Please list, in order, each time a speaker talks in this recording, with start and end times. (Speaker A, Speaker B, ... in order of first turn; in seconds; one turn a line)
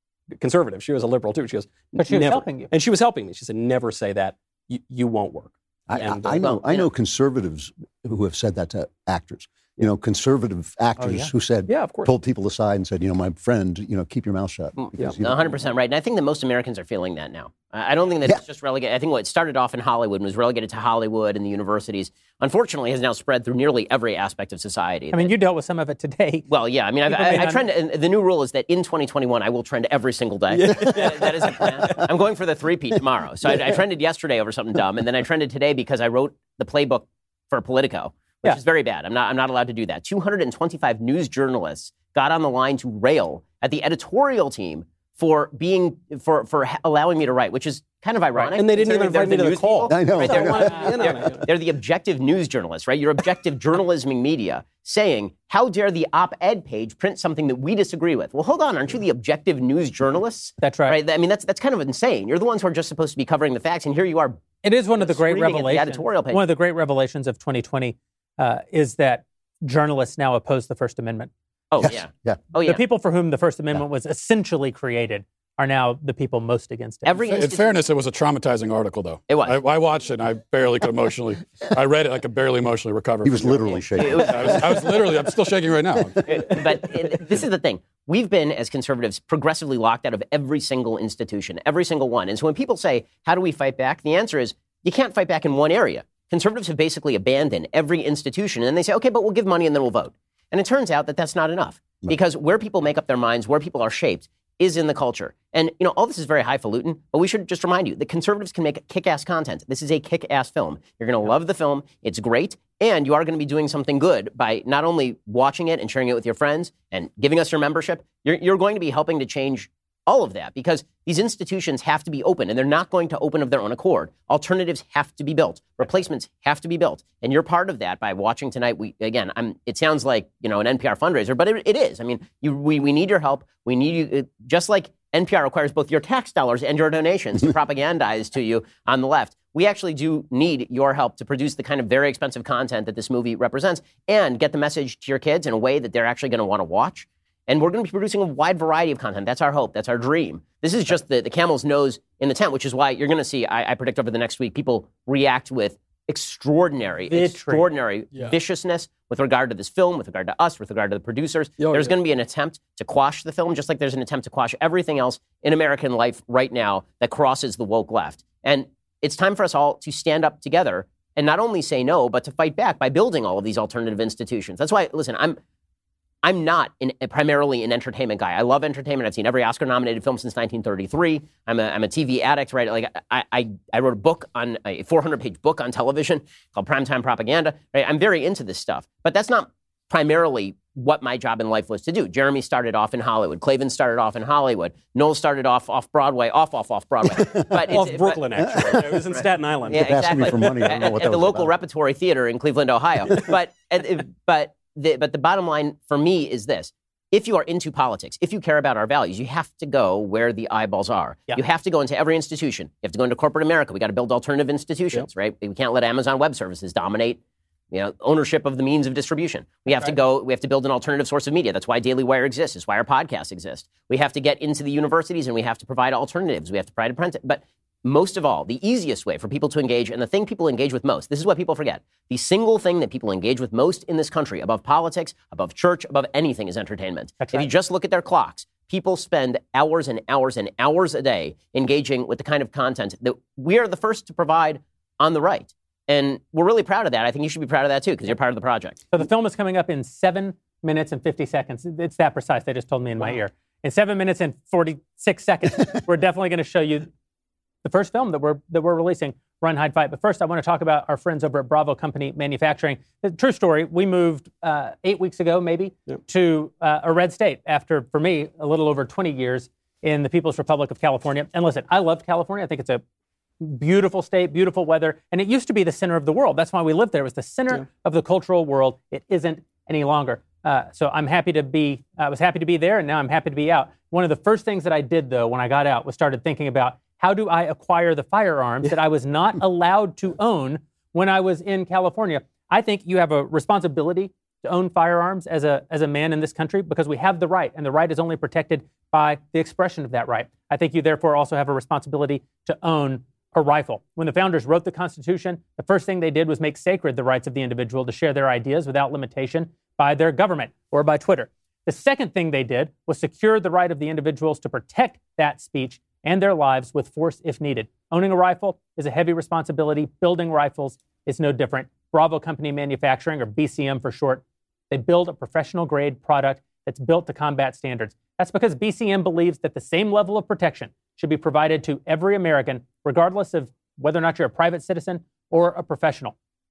Speaker A: 0.3-6.4
Speaker B: 1.9-2.7
Speaker C: 5.9-15.6
Speaker D: 6.4-6.9
Speaker A: 11.0-12.1
Speaker D: 15.2-25.3
Speaker B: 25.1-26.4
Speaker D: 26.5-64.4
Speaker B: 27.1-27.6
Speaker A: 30.5-32.1
Speaker A: 33.5-33.8
Speaker A: 48.4-51.5
Speaker C: 49.9-51.2
Speaker B: 60.6-61.0
Speaker B: 64.6-71.3
Speaker D: 65.0-66.4
Speaker D: 71.7-72.8
Speaker C: 71.8-72.4
Speaker B: 72.6-77.2
Speaker D: 77.0-77.7
Speaker E: 77.3-86.4
Speaker D: 79.3-79.6
Speaker C: 83.2-85.0
Speaker D: 83.7-84.9
Speaker D: 86.2-175.4
Speaker B: 157.1-157.6
Speaker A: 161.6-161.9
Speaker D: 176.2-217.2
Speaker C: 197.1-197.8
Speaker A: 197.7-200.7
Speaker C: 198.4-199.1
Speaker C: 199.7-201.5
Speaker D: 217.7-248.8
Speaker B: 219.7-219.9
Speaker B: 237.2-237.5
Speaker B: 248.9-256.9
Speaker B: 257.6-272.8
Speaker B: 273.4-336.1